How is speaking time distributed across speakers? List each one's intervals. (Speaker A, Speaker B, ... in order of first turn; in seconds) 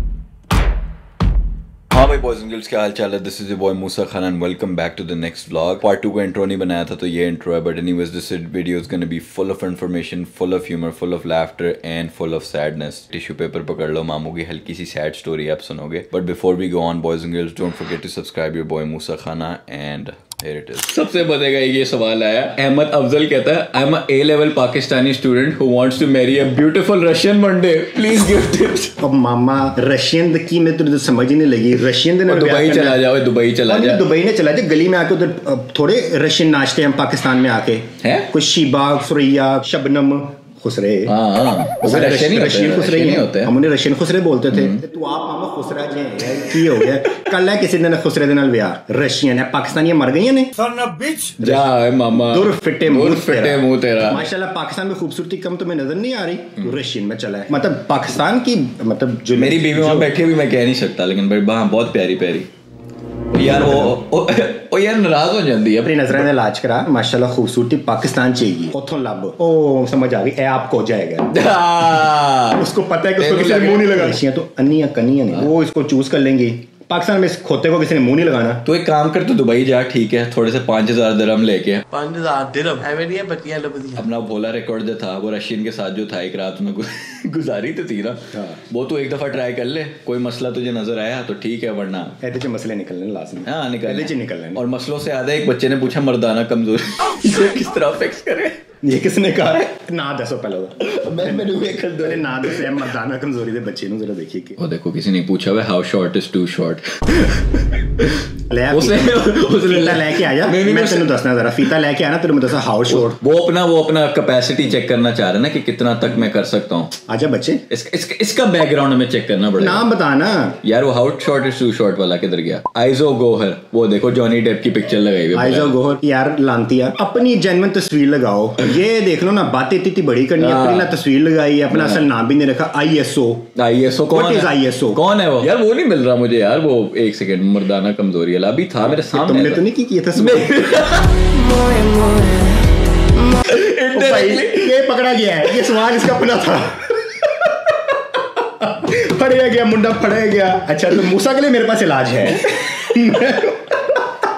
Speaker A: 1.9-29.0, 32.3-34.0, 38.0-38.3, 41.1-43.5, 44.5-44.8, 51.4-54.3, 59.4-62.5, 63.3-66.2, 71.3-72.6, 73.2-74.2, 78.7-81.8, 83.9-92.2, 93.5-98.6, 100.8-102.8, 104.6-111.1, 112.9-116.9, 117.7-119.8, 120.6-125.7, 130.4-130.9, 131.7-132.1, 133.6-139.6, 140.2-141.4, 143.3-144.8
Speaker B: 29.0-33.0, 33.7-60.2, 63.4-64.0, 65.8-71.5, 72.5-78.7, 88.3-88.6, 92.2-94.6, 98.8-104.6, 108.5-113.2, 117.1-117.6, 119.6-120.6, 125.3-133.5, 134.1-135.0, 138.9-140.6, 143.9-147.6, 148.4-153.8
Speaker C: 50.7-51.2, 81.9-84.0, 141.5-142.7